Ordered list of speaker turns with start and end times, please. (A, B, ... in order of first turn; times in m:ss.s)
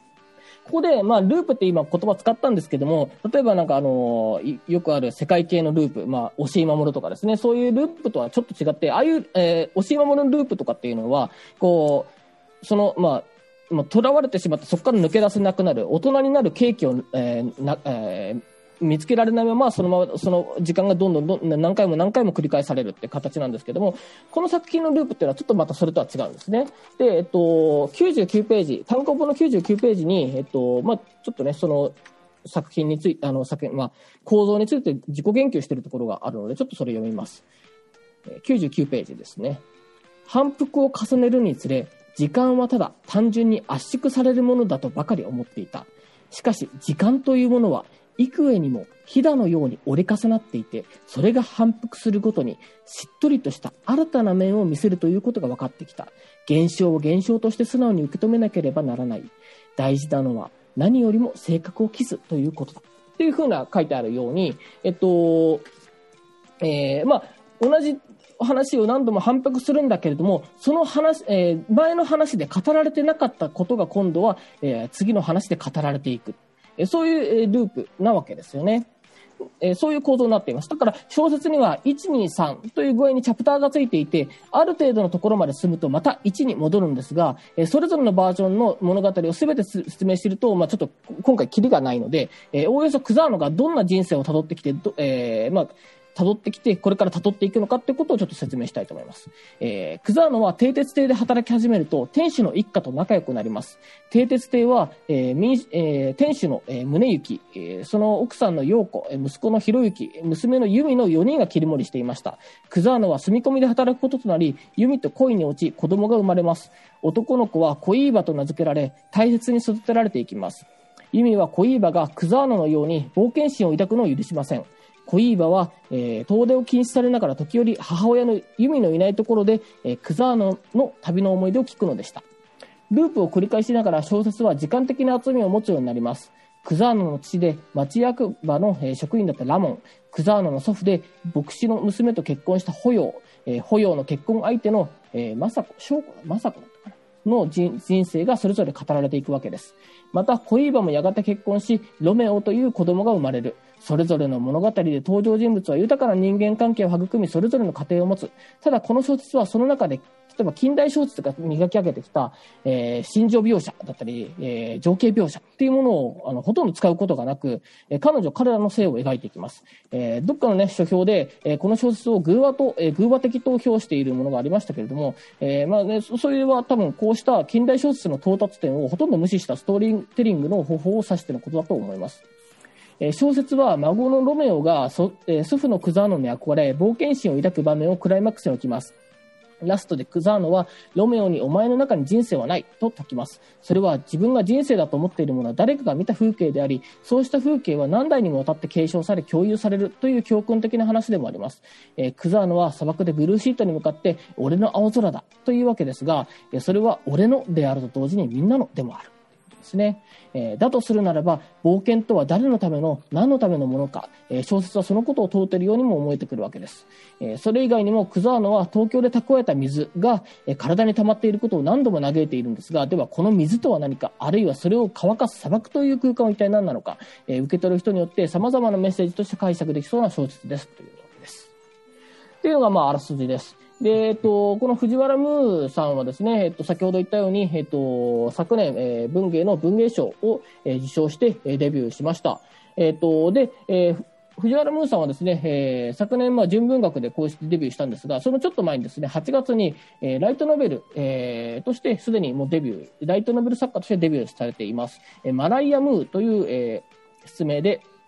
0:00.7-0:12.1 A
0:12.6-0:37.4 A
0:38.4-0:39.6 A
0:40.3-1:05.6 A
1:06.6-1:18.9 A
1:19.6-2:12.2 A
2:12.9-3:02.2 A
3:03.0-3:09.0 A
3:09.6-3:51.5 A
3:52.4-4:17.8 A